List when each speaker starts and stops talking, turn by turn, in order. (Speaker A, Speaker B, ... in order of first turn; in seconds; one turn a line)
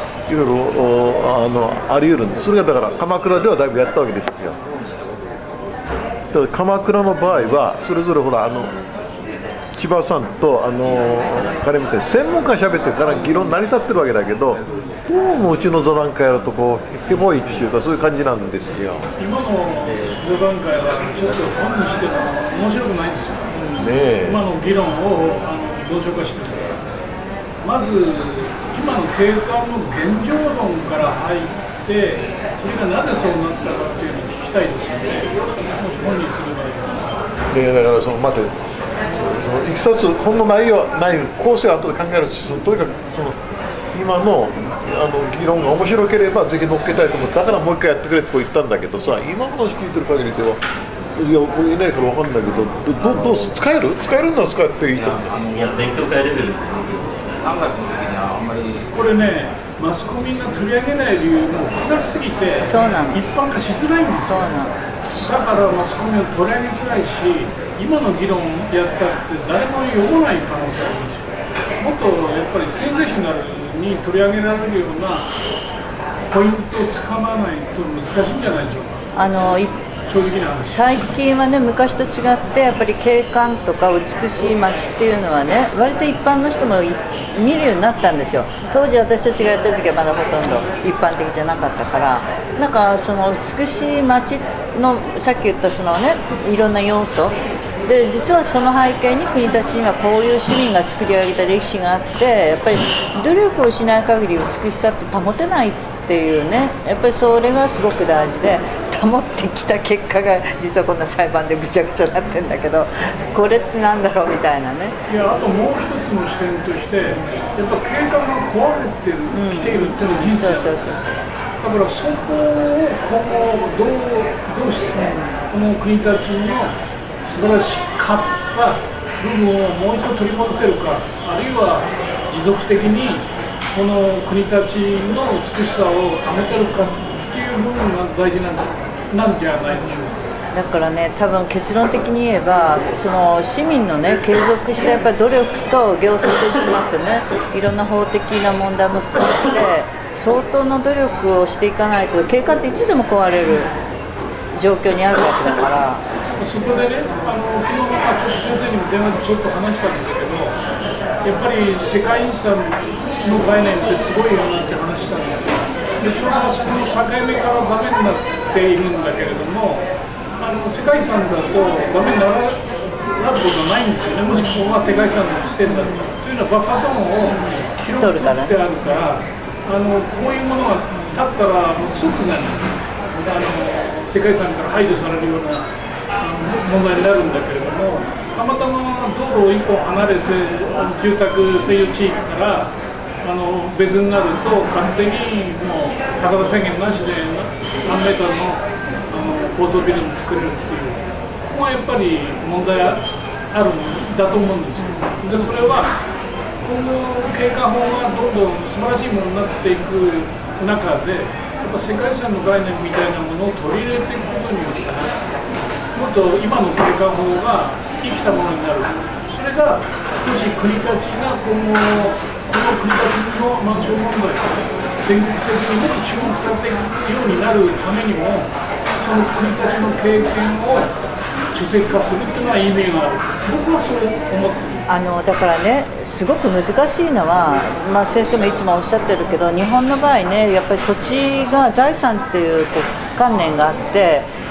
Speaker A: 0.3-4.6
Speaker B: 4.5-5.7
Speaker A: 6.3-8.7
Speaker A: 9.8-19.1
Speaker C: 19.2-26.8
Speaker A: 23.8-24.4
Speaker C: 27.6-37.1
Speaker A: 37.5-38.5
Speaker A: 39.1-43.4
Speaker A: 43.9-50.6
Speaker A: 51.2-55.3
Speaker B: 54.9-56.4
Speaker D: 55.5-57.5
Speaker B: 57.3-58.9
Speaker C: 58.9-64.5
Speaker E: 62.7-63.2
Speaker E: 64.3-64.8
Speaker A: 65.1-65.3
Speaker C: 65.2-75.3
Speaker C: 76.3-79.0
Speaker E: 79.2-115.0
Speaker C: 80.1-80.8
Speaker C: 115.1-120.9
Speaker E: 119.3-121.4
Speaker C: 121.6-140.3
Speaker E: 125.0-125.3
Speaker E: 140.5-153.7
Speaker E: 154.6-156.0
Speaker C: 156.4-160.6
Speaker C: 161.2-169.9
Speaker C: 170.4-172.6
Speaker C: 173.2-185.7
Speaker E: 178.0-178.6
Speaker C: 186.2-205.9
Speaker E: 204.8-205.2
Speaker C: 206.6-215.2
Speaker C: 215.9-230.9
Speaker C: 231.5-234.9
Speaker E: 234.9-244.3